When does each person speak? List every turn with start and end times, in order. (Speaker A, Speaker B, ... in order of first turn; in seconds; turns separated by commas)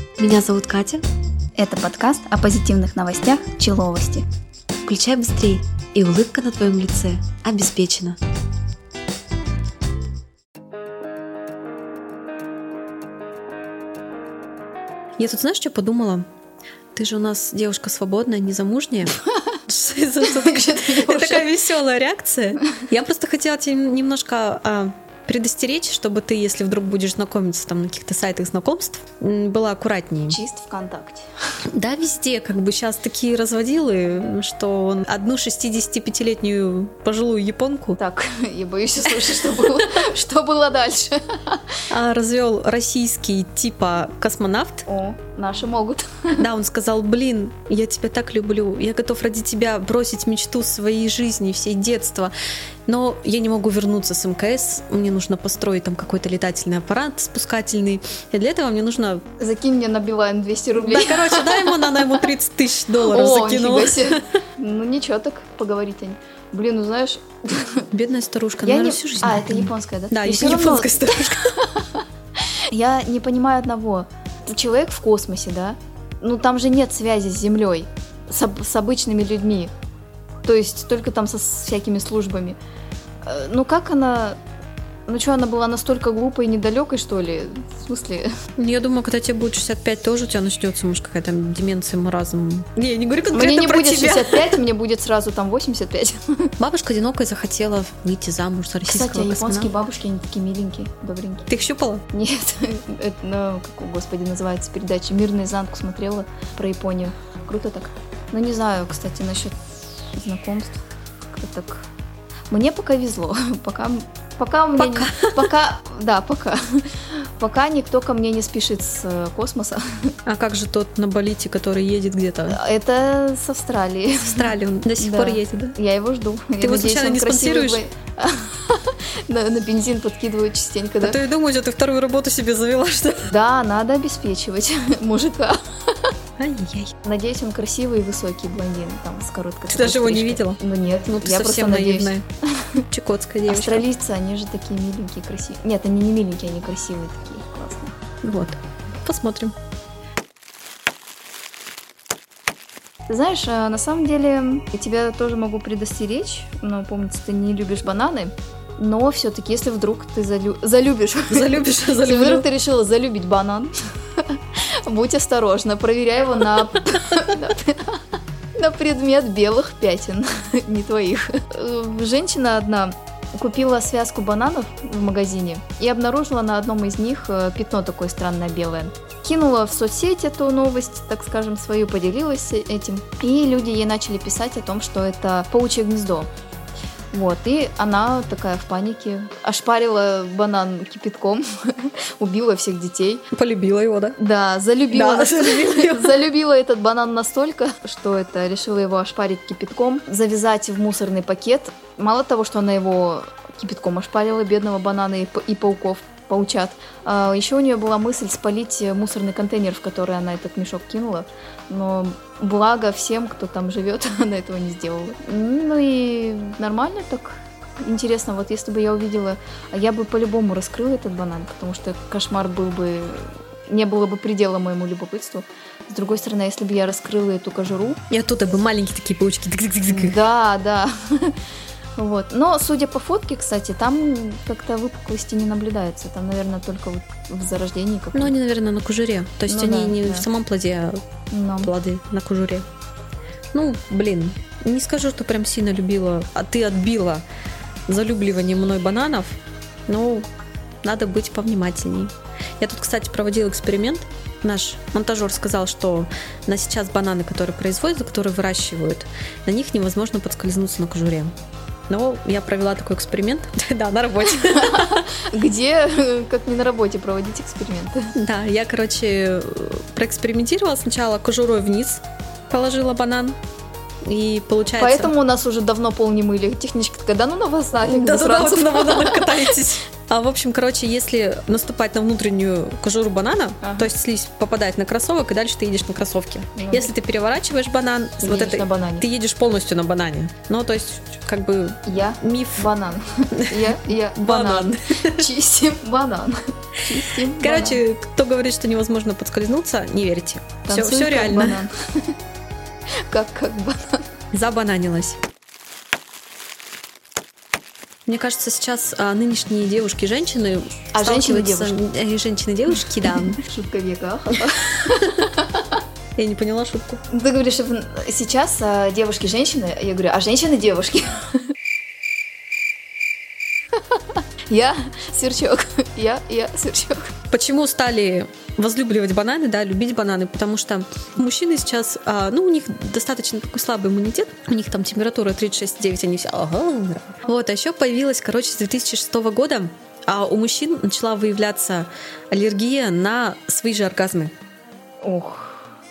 Speaker A: 0.2-1.0, Speaker B: 1.6-4.2, Speaker A: 4.8-8.2, Speaker A: 15.2-16.2, Speaker A: 16.9-30.4, Speaker B: 20.2-21.5, Speaker B: 30.3-31.2, Speaker A: 31.7-38.0, Speaker B: 38.0-41.6, Speaker A: 39.3-39.8, Speaker A: 41.9-44.9, Speaker B: 44.9-46.4, Speaker A: 46.4-52.3, Speaker A: 52.9-59.2, Speaker B: 59.4-62.2, Speaker A: 60.8-64.3, Speaker B: 63.0-67.9, Speaker A: 67.9-71.5, Speaker B: 68.6-72.0, Speaker B: 72.7-79.7, Speaker B: 80.4-82.6, Speaker B: 83.2-84.4, Speaker B: 85.1-88.3, Speaker A: 88.5-94.6, Speaker B: 93.3-96.5, Speaker A: 96.6-99.7, Speaker B: 98.8-101.5, Speaker A: 101.5-102.0, Speaker B: 102.1-111.8, Speaker B: 112.5-119.8, Speaker A: 114.8-115.5, Speaker A: 120.2-122.6, Speaker B: 122.5-131.2, Speaker A: 124.2-125.8, Speaker A: 126.6-127.8, Speaker A: 131.0-133.3, Speaker B: 133.3-135.6, Speaker A: 136.4-136.9, Speaker B: 137.0-142.8, Speaker A: 139.7-142.2, Speaker A: 142.9-143.8, Speaker B: 143.5-147.9, Speaker A: 148.2-149.5, Speaker B: 153.1-163.7, Speaker A: 161.3-162.5, Speaker B: 164.8-168.0, Speaker B: 168.6-186.3, Speaker B: 187.1-193.2, Speaker A: 193.3-194.2, Speaker B: 194.2-228.0, Speaker A: 194.9-196.2, Speaker A: 228.1-230.2, Speaker B: 229.9-231.3, Speaker B: 232.0-238.3, Speaker A: 238.1-241.0, Speaker B: 239.5-240.3, Speaker B: 241.3-241.7, Speaker A: 241.6-242.7, Speaker A: 243.5-247.2, Speaker A: 247.9-250.3, Speaker A: 250.8-261.3, Speaker A: 261.9-265.1, Speaker B: 264.3-268.1, Speaker A: 268.1-273.4, Speaker A: 274.0-275.1, Speaker B: 274.8-279.6, Speaker A: 277.8-292.7, Speaker B: 283.6-283.9, Speaker B: 286.6-286.9, Speaker B: 288.2-289.1, Speaker B: 291.9-297.8, Speaker A: 293.3-295.3, Speaker A: 297.3-301.6, Speaker B: 300.7-302.1, Speaker B: 303.1-304.1, Speaker A: 304.3-305.2, Speaker A: 308.1-313.4, Speaker B: 310.9-311.8, Speaker B: 313.4-315.8, Speaker A: 316.1-317.0, Speaker B: 317.1-321.3, Speaker B: 324.5-327.1, Speaker A: 327.3-344.3, Speaker B: 345.0-345.6